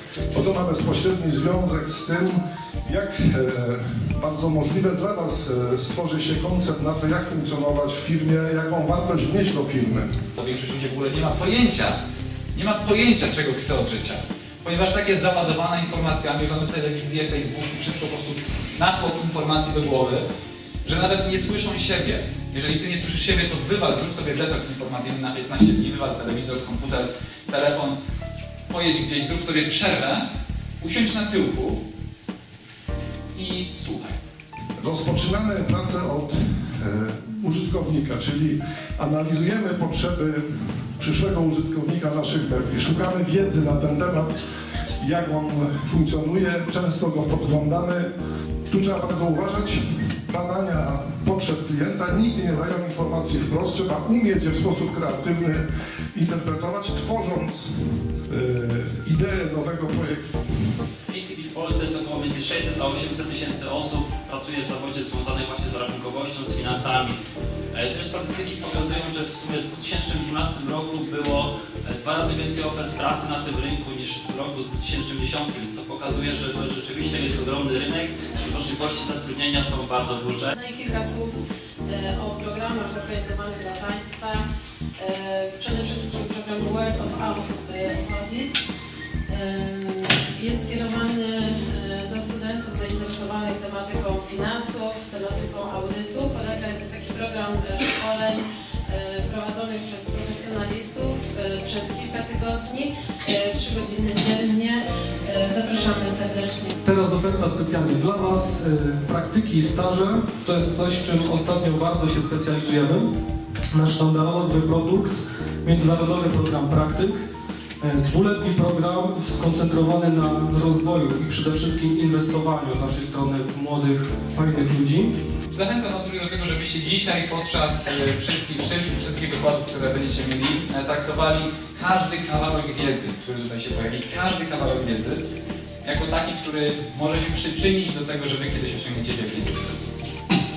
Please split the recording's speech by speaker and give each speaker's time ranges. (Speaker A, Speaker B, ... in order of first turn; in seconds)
Speaker A: 0.3-10.1, 34.8-44.4, 45.0-48.1, 48.7-60.4
Speaker B: 10.4-12.0, 12.5-20.2, 20.8-27.9, 28.7-30.2, 30.8-31.8, 33.4-34.2, 125.5-135.2, 135.8-139.9
Speaker C: 61.1-67.1, 67.7-80.5
Speaker D: 80.5-84.5, 85.0-88.5, 89.3-106.7
Speaker E: 106.8-113.1, 113.7-117.2, 117.8-125.2